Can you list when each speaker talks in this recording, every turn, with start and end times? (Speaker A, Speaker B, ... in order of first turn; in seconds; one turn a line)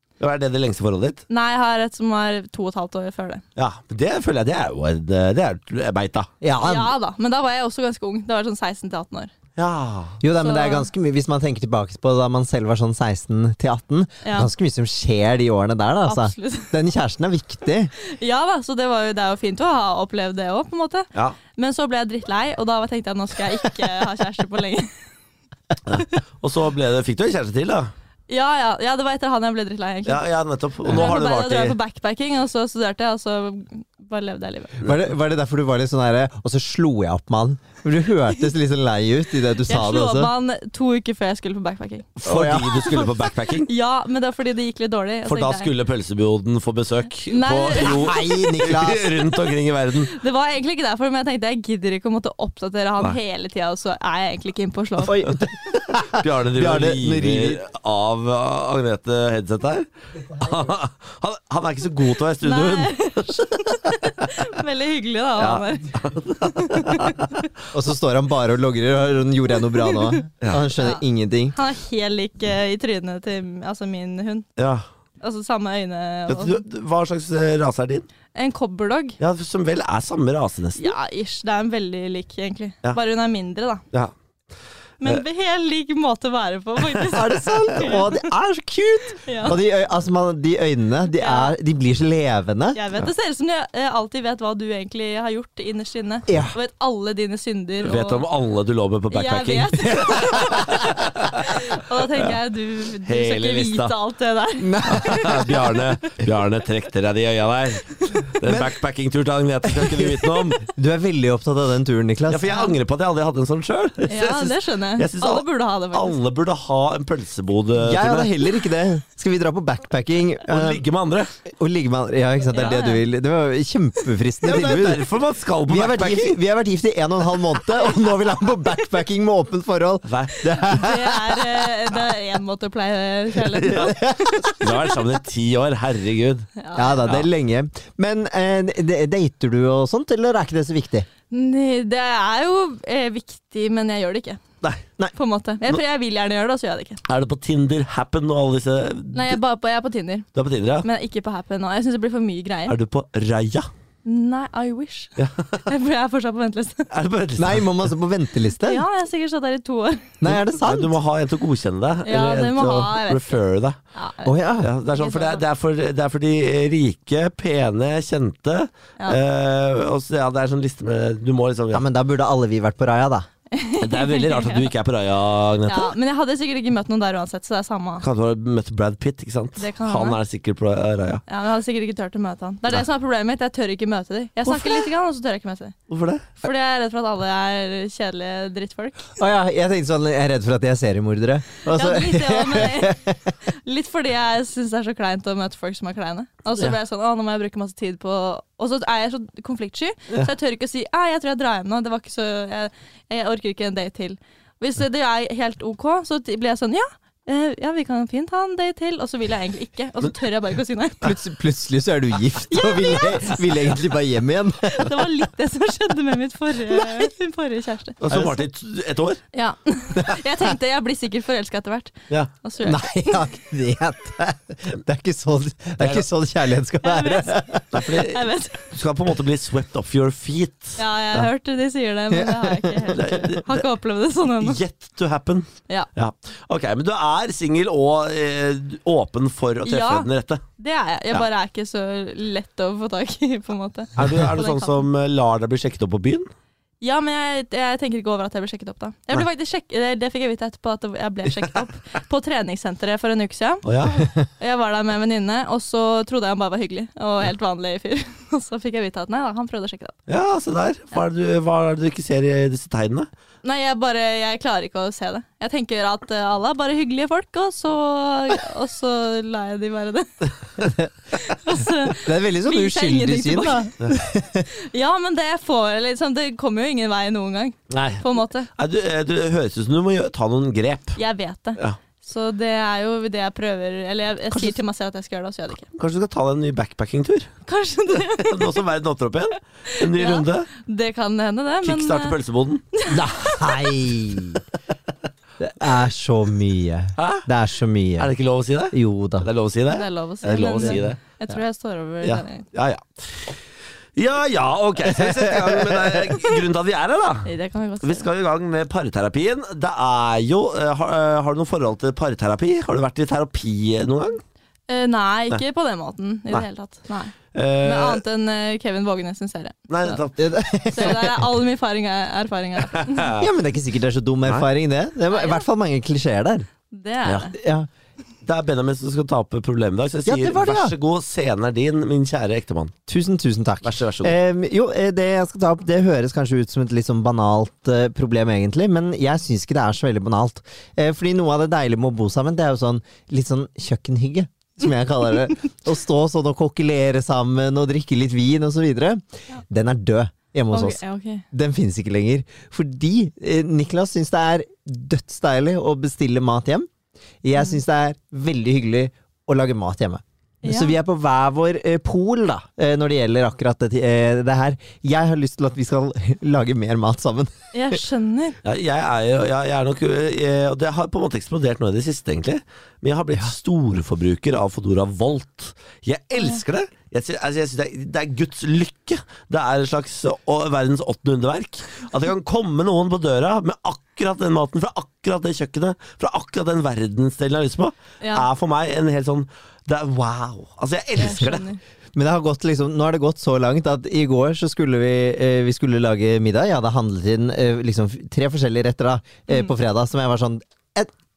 Speaker A: 0.2-1.2
Speaker B: 1.3-3.4
Speaker A: 3.5-6.3
Speaker C: 6.4-6.9
Speaker B: 6.6-9.3
Speaker A: 9.6-10.2
Speaker C: 10.2-17.9
Speaker B: 10.4-10.9
Speaker B: 14.2-14.5
Speaker B: 16.0-16.7
Speaker B: 18.0-24.9
Speaker A: 25.9-27.9
Speaker B: 28.3-30.2
Speaker A: 30.1-31.8
Speaker B: 30.8-34.8
Speaker C: 34.8-40.3
Speaker B: 39.6-42.1
Speaker A: 42.2-43.7
Speaker C: 42.2-42.8
Speaker B: 42.6-45.7
Speaker A: 45.2-50.1
Speaker B: 47.3-48.4
Speaker C: 47.8-49.1
Speaker B: 50.1-55.3
Speaker C: 55.1-57.6
Speaker A: 55.9-63.6
Speaker B: 62.4-67.3
Speaker A: 65.4-67.3
Speaker C: 67.7-71.5
Speaker B: 69.8-70.2
Speaker A: 70.4-70.7
Speaker B: 70.8-71.0
Speaker B: 71.5-74.5
Speaker A: 74.6-74.8
Speaker B: 75.2-76.6
Speaker A: 76.3-78.0
Speaker B: 78.3-79.2
Speaker A: 79.2-80.9
Speaker B: 80.8-83.8
Speaker B: 85.0-88.2
Speaker C: 87.1-92.8
Speaker B: 89.2-89.5
Speaker B: 91.2-91.5
Speaker B: 92.7-98.2
Speaker C: 96.3-96.5
Speaker A: 97.8-101.6
Speaker B: 99.1-105.8
Speaker A: 103.0-103.9
Speaker C: 104.6-105.6
Speaker A: 104.9-110.6
Speaker C: 109.6-112.6
Speaker A: 112.3-118.3
Speaker B: 114.1-116.2
Speaker C: 117.8-120.8
Speaker A: 120.5-121.3
Speaker C: 121.5-125.0
Speaker B: 122.5-123.0
Speaker A: 124.4-126.4
Speaker C: 125.7-131.7
Speaker A: 130.1-130.5
Speaker B: 130.5-134.9
Speaker A: 133.5-136.5
Speaker C: 133.7-134.5
Speaker B: 136.6-137.0
Speaker C: 136.7-141.1
Speaker B: 141.3-144.4
Speaker B: 145.1-147.0
Speaker A: 147.1-149.4
Speaker B: 149.1-150.2
Speaker A: 150.3-150.8
Speaker B: 150.8-152.7
Speaker A: 152.7-153.7
Speaker B: 154.0-156.9
Speaker A: 155.2-155.6
Speaker A: 156.9-157.7
Speaker C: 157.4-158.8
Speaker B: 158.6-160.1
Speaker C: 160.2-160.9
Speaker A: 160.2-163.8
Speaker B: 162.0-163.4
Speaker B: 163.9-164.4
Speaker C: 164.2-164.7
Speaker A: 164.6-171.8
Speaker B: 164.9-165.4
Speaker C: 171.7-173.3
Speaker B: 173.5-174.7
Speaker A: 173.8-175.9
Speaker B: 175.7-178.0
Speaker A: 178.0-181.2
Speaker B: 179.6-180.2
Speaker B: 181.3-185.8
Speaker A: 184.4-184.8
Speaker A: 185.9-186.4
Speaker B: 186.4-189.1
Speaker C: 189.2-193.2
Speaker B: 191.7-211.2
Speaker C: 211.0-215.1
Speaker B: 212.5-213.5
Speaker B: 214.6-218.0
Speaker A: 218.0-219.2
Speaker C: 218.1-218.4
Speaker B: 219.3-223.2
Speaker C: 222.6-227.8
Speaker A: 225.8-226.1
Speaker B: 226.8-228.7
Speaker A: 227.7-230.8
Speaker B: 230.8-234.6
Speaker C: 232.1-232.9
Speaker A: 232.9-233.6
Speaker A: 234.4-240.4
Speaker B: 239.6-244.8
Speaker A: 243.9-246.2
Speaker B: 246.8-260.0
Speaker A: 253.6-254.1
Speaker A: 260.1-263.1
Speaker B: 263.4-270.3
Speaker C: 270.6-270.9
Speaker B: 271.1-273.7
Speaker C: 271.9-274.5
Speaker B: 274.5-278.5
Speaker A: 277.7-281.0
Speaker B: 280.9-285.7
Speaker A: 284.3-284.6
Speaker A: 285.8-287.3
Speaker B: 287.4-288.6
Speaker A: 288.2-290.5
Speaker B: 289.7-292.1
Speaker A: 291.6-292.6
Speaker B: 292.7-293.7
Speaker C: 292.9-294.4
Speaker C: 295.4-298.1
Speaker A: 297.0-297.2
Speaker A: 298.0-301.0
Speaker C: 298.7-299.3
Speaker B: 299.7-302.4
Speaker A: 302.0-303.4
Speaker A: 303.9-307.3
Speaker C: 304.9-306.2
Speaker B: 307.2-308.1
Speaker A: 307.8-314.2
Speaker B: 314.7-320.0
Speaker A: 317.3-318.0
Speaker A: 319.7-320.3
Speaker C: 320.2-321.2
Speaker B: 320.6-323.1
Speaker A: 322.7-323.2
Speaker C: 323.1-326.5
Speaker B: 325.1-325.4
Speaker B: 326.7-327.3
Speaker C: 327.3-327.7
Speaker A: 328.2-332.7
Speaker C: 330.1-330.7
Speaker C: 332.9-350.8
Speaker A: 333.6-334.2
Speaker B: 350.5-351.2
Speaker C: 351.3-356.7
Speaker C: 357.2-367.3
Speaker B: 360.4-360.8
Speaker B: 367.5-368.4
Speaker A: 368.4-391.4
Speaker B: 388.0-388.3
Speaker B: 391.0-391.6
Speaker C: 391.9-400.9